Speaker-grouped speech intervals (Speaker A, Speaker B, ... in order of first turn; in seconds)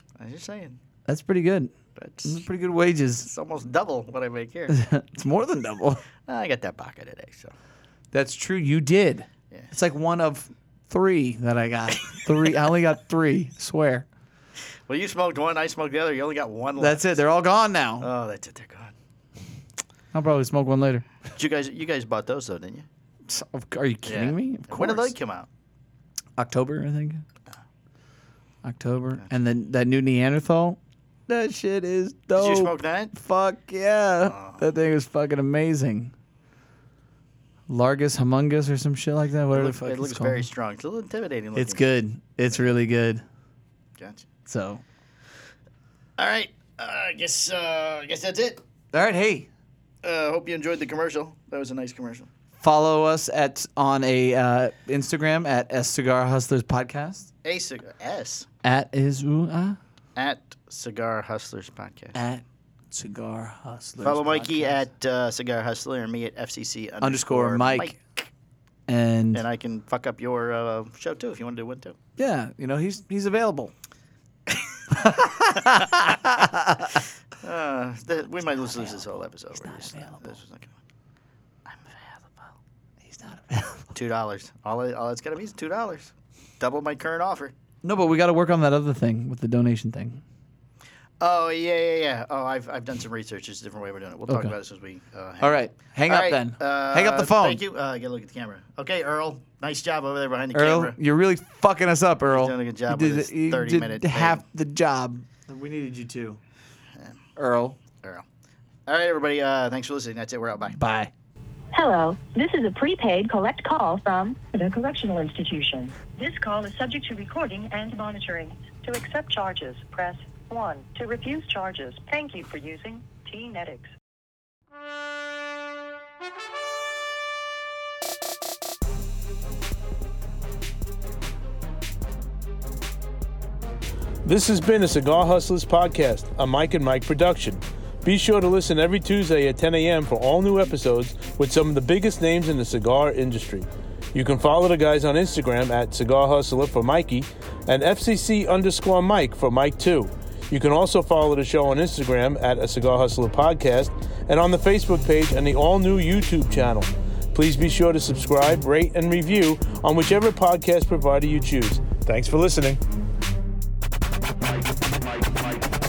Speaker A: 0.2-0.8, 1.9-2.4, 3.2-4.8, 6.2-7.5, 14.9-17.2, 18.0-18.9, 21.3-22.9, 24.0-25.5, 32.3-33.1, 34.2-34.7, 39.5-41.8, 44.0-44.2, 46.2-48.6, 50.0-52.3, 57.4-58.5, 60.1-62.1, 64.0-68.2, 69.3-72.0, 75.6-75.9, 77.4-80.8, 81.7-82.5, 83.9-87.5, 91.2-101.0, 102.3-104.4, 108.9-110.8
Speaker B: 1.1-1.7, 2.2-3.3, 4.7-6.0, 8.1-14.1, 16.8-18.1, 20.1-21.1, 23.3-25.1, 26.4-27.2, 28.6-36.1, 37.7-40.4, 41.5-43.2, 44.5-44.8, 48.9-49.5, 52.6-57.3, 58.6-59.8, 62.1-64.8, 67.0-68.0, 68.9-69.4, 72.2-73.7, 74.9-77.0, 78.6-80.4, 83.0-83.9, 87.8-90.2, 94.3-94.5, 95.4-97.6, 100.5-106.4, 107.3-107.8, 110.7-111.1
Speaker C: 111.7-123.9
Speaker D: 134.2-162.8